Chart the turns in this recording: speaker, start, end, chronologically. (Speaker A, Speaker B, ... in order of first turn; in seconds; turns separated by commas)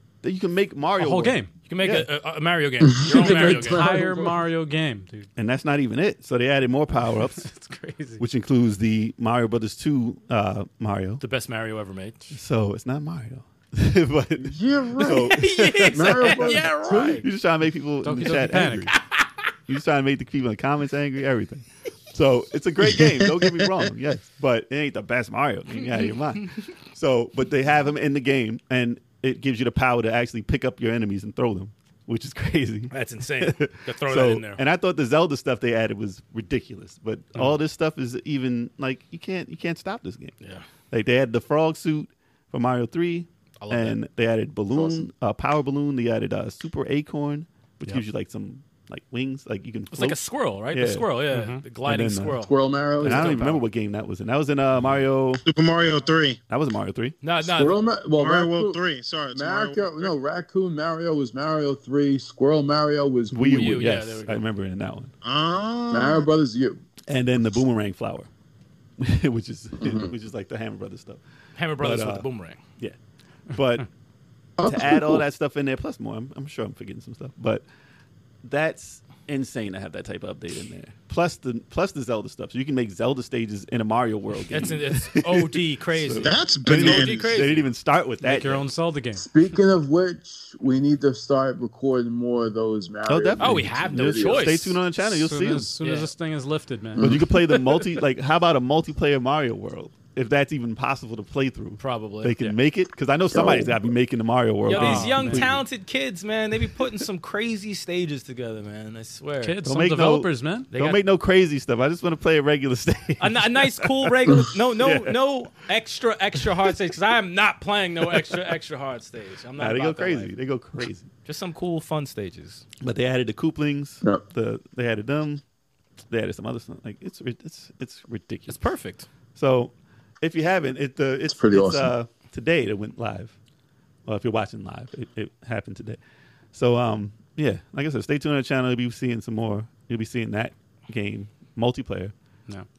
Speaker A: 0.2-2.1, Speaker B: 1.0-1.5, Speaker C: 1.7-4.1, Speaker D: 3.0-4.4, Speaker B: 3.1-5.3, Speaker A: 5.3-7.5, Speaker B: 7.0-8.2, Speaker A: 8.2-11.2, Speaker C: 11.2-12.2, Speaker A: 12.3-19.0, Speaker D: 14.4-15.3, Speaker C: 15.0-17.2, Speaker D: 15.9-17.2, Speaker B: 18.0-18.9, Speaker C: 18.9-19.2, Speaker A: 19.7-40.3, Speaker E: 23.2-23.7, Speaker C: 32.9-34.6, Speaker A: 40.9-50.2, Speaker C: 43.6-44.0, Speaker D: 44.7-45.0, Speaker C: 49.9-53.6, Speaker A: 50.7-51.1, Speaker B: 51.3-51.6, Speaker A: 51.8-52.4, Speaker D: 52.4-53.4, Speaker A: 53.0-55.4, Speaker E: 55.5-56.4, Speaker A: 56.5-57.1, Speaker C: 57.2-57.8, Speaker D: 57.4-58.8, Speaker E: 58.1-60.1, Speaker D: 59.3-63.8, Speaker A: 63.3-65.1, Speaker C: 63.5-64.4, Speaker E: 65.2-66.3, Speaker D: 65.9-66.8, Speaker A: 67.1-68.3, Speaker A: 69.0-71.2, Speaker D: 69.8-70.1, Speaker C: 71.5-72.6, Speaker A: 71.8-72.3, Speaker A: 73.5-73.9, Speaker D: 74.6-75.2, Speaker A: 74.6-77.6, Speaker A: 78.4-88.7, Speaker C: 84.5-87.7, Speaker E: 86.2-87.3, Speaker B: 88.2-89.3, Speaker D: 89.2-94.7, Speaker A: 93.0-95.7, Speaker C: 93.4-94.8, Speaker B: 95.0-97.1, Speaker C: 95.8-96.1, Speaker D: 97.0-97.3, Speaker A: 97.0-105.6, Speaker C: 101.8-102.6, Speaker D: 103.3-103.8, Speaker C: 104.6-109.6, Speaker B: 104.7-105.5, Speaker B: 109.4-110.7, Speaker A: 109.6-115.2, Speaker C: 110.7-111.0, Speaker C: 113.2-120.3, Speaker A: 116.4-116.7, Speaker A: 118.0-118.4, Speaker A: 119.6-121.1, Speaker C: 121.2-122.6, Speaker A: 122.8-125.4, Speaker A: 126.1-128.6, Speaker C: 128.5-129.1, Speaker A: 129.3-133.3, Speaker D: 131.3-131.9, Speaker A: 134.0-136.0, Speaker A: 136.5-142.1